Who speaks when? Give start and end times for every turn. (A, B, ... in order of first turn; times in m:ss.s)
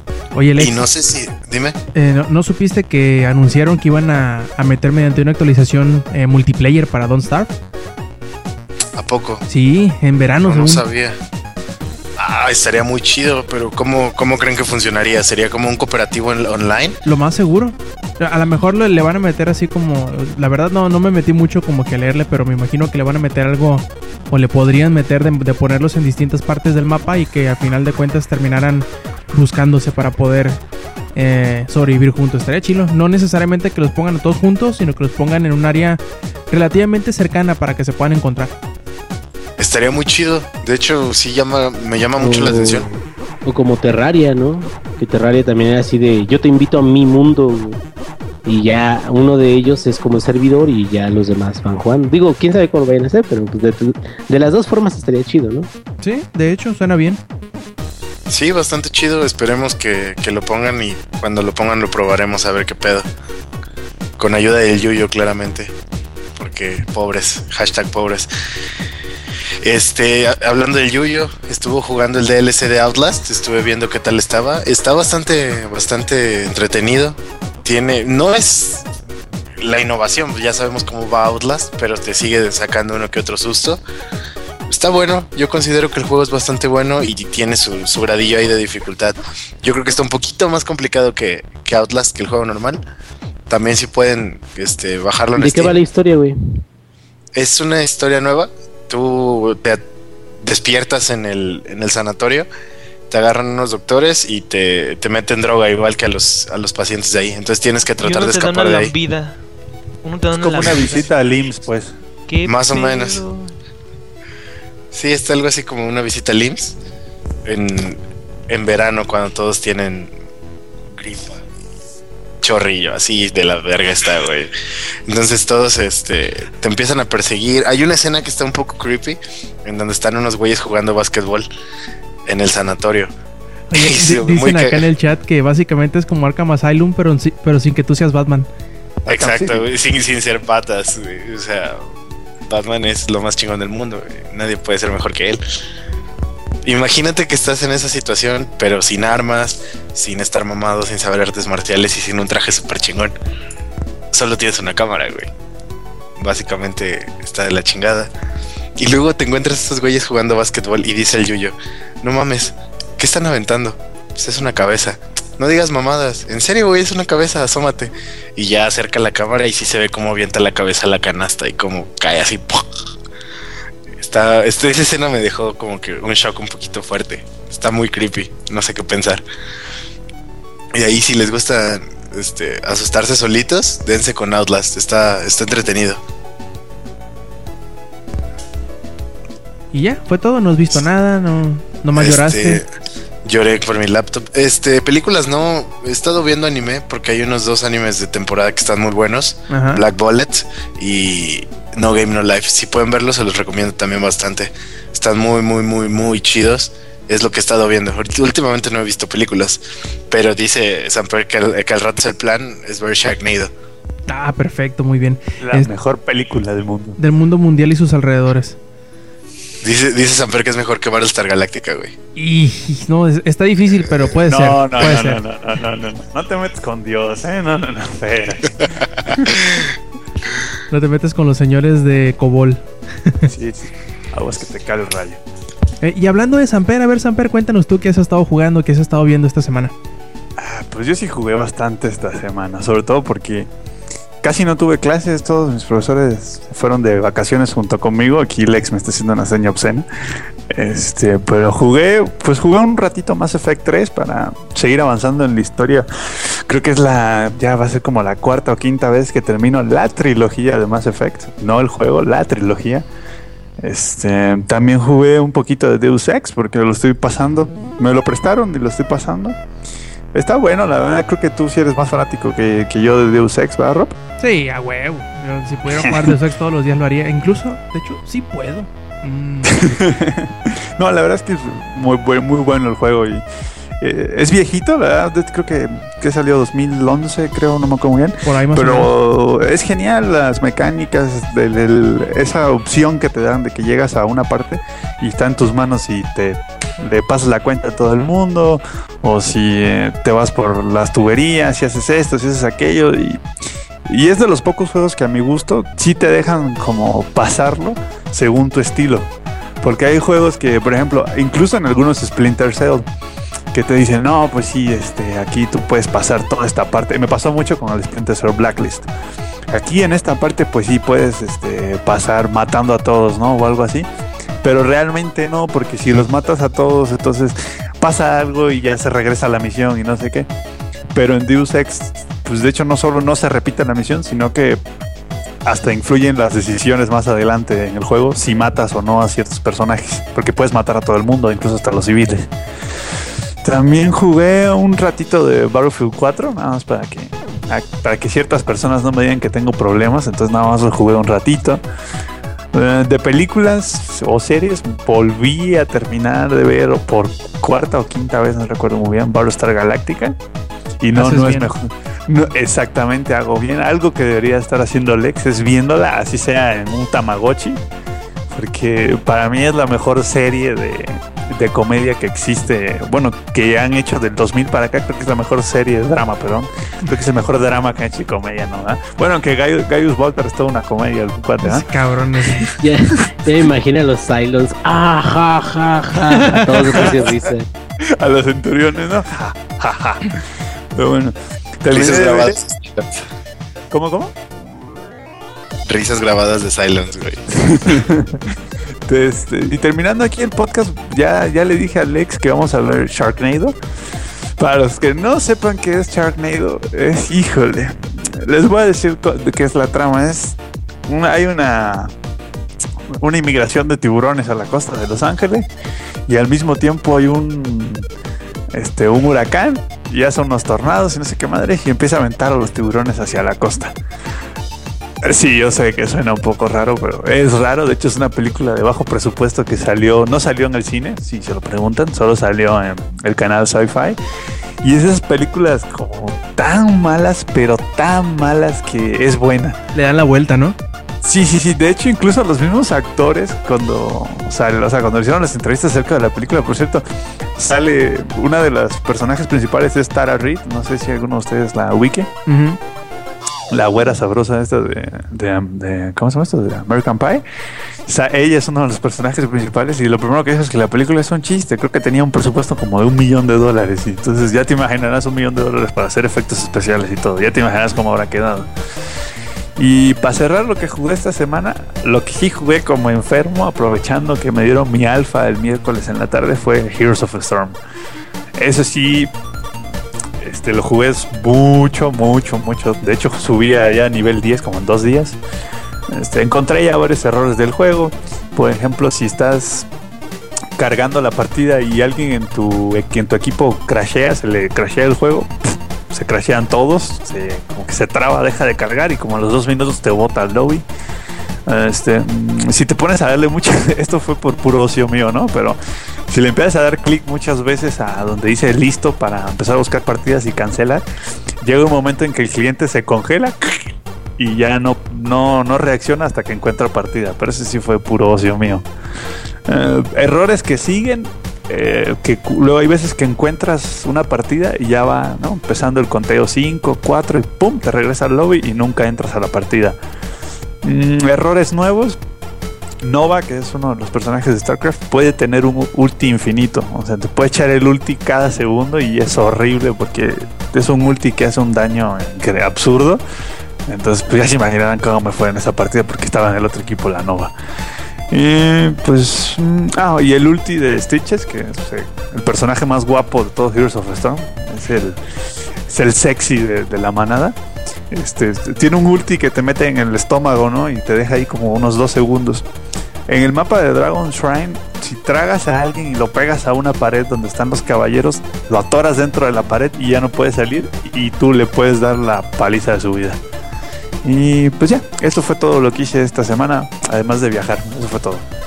0:00.3-0:00.8 A
0:00.6-0:01.8 B
0:01.9-0:07.5 A
0:09.0-0:09.4 B
0:09.5-0:10.8 A
0:10.4-0:11.2 B
0:12.2-0:17.0 B
0:17.0-0:30.6 A
0:31.1-0:38.5 A
0:39.6-0:42.8 B
0:42.2-0:47.8 C
0:48.4-0:55.7 C
0:56.0-0:57.2 A
0:58.3-1:03.1 B
1:04.2-1:05.7 B
1:06.4-1:08.3 B
1:09.6-1:18.8 B
1:19.6-1:23.8 B
1:24.7-1:32.8 B
1:33.5-1:35.7 B
1:35.4-1:36.6 C
1:37.3-1:39.8 B
1:40.4-1:42.5 B
1:43.1-1:48.9 B
1:48.0-1:49.4 D
1:50.0-1:51.1 D
1:50.3-1:51.9 E
1:52.3-1:53.5 D
1:52.4-1:53.2 B
1:54.9-1:56.8 B
1:57.4-2:00.1 B
2:00.9-2:01.4 B
2:02.4-2:04.5 B
2:05.1-2:11.5 B
2:12.2-2:13.1 B
2:13.7-2:18.5 A
2:13.7-2:14.8 B
2:19.0-2:19.6 E
2:19.1-2:21.9 B
2:22.5-2:25.4 B
2:26.6-2:33.1 B
2:34.1-2:35.3 B
2:36.2-2:38.1 B
2:38.8-2:52.6 B
2:54.0-2:59.2 B
3:00.7-3:06.0 B
3:09.7-3:12.6 A
3:12.0-3:12.6 B
3:13.2-3:33.5 B
3:19.5-3:19.8 A
3:34.1-3:35.7 A
3:35.4-3:37.0 E
3:37.0-3:38.6 A
3:39.6-3:41.9 B
3:42.2-3:45.2 A
3:44.3-3:48.6 E
3:50.7-3:53.3 A
3:53.3-3:55.2 E
3:55.8-3:59.7 A
4:00.4-4:03.5 E
4:04.2-4:09.8 E
4:10.5-4:15.9 E
4:16.5-4:22.8 E
4:23.6-4:29.4 E
4:30.1-4:33.9 E
4:34.2-4:39.7 A
4:35.7-4:36.1 E
4:39.4-4:43.2 E
4:43.8-5:03.2 E
4:48.2-4:48.9 A
5:03.9-5:12.8 E
5:13.5-5:18.9 E
5:19.5-5:23.9 E
5:24.4-5:30.3 E
5:30.9-5:34.6 E
5:35.4-5:42.3 E
5:43.4-5:51.6 E
5:52.5-6:00.2 E
6:00.8-6:07.6 E
6:00.9-6:01.5 A
6:08.3-6:21.7 E
6:21.4-6:22.5 A
6:22.6-6:27.5 C
6:26.1-6:26.9 A
6:26.7-6:27.2 E
6:28.0-6:30.2 E
6:30.7-6:32.4 E
6:31.7-6:32.9 B
6:33.7-6:34.1 E
6:35.7-6:37.8 B
6:37.3-6:38.2 E
6:38.9-6:43.5 E
6:44.4-6:51.9 E
6:53.0-6:55.5 E
6:56.1-6:57.8 E
6:58.5-7:03.7 E
7:05.0-7:14.0 E
7:14.6-7:19.6 E
7:19.7-7:20.6 A
7:21.0-7:26.8 E
7:27.4-7:32.1 E
7:32.3-7:32.6 A
7:33.5-7:37.2 E
7:37.9-7:48.5 E
7:49.6-7:57.6 E
7:58.4-7:59.1 E
8:00.2-8:05.2 E
8:05.9-8:09.7 E
8:10.6-8:15.3 E
8:15.9-8:20.6 E
8:21.5-8:25.6 E
8:26.1-8:30.8 E
8:31.4-8:38.6 E
8:39.5-8:49.8 E
8:50.6-8:52.0 E
8:52.8-9:03.0 E
9:03.7-9:07.3 E
9:08.1-9:15.0 E
9:15.6-9:17.4 E
9:17.9-9:22.4 E
9:23.1-9:33.2 E
9:34.0-9:38.2 E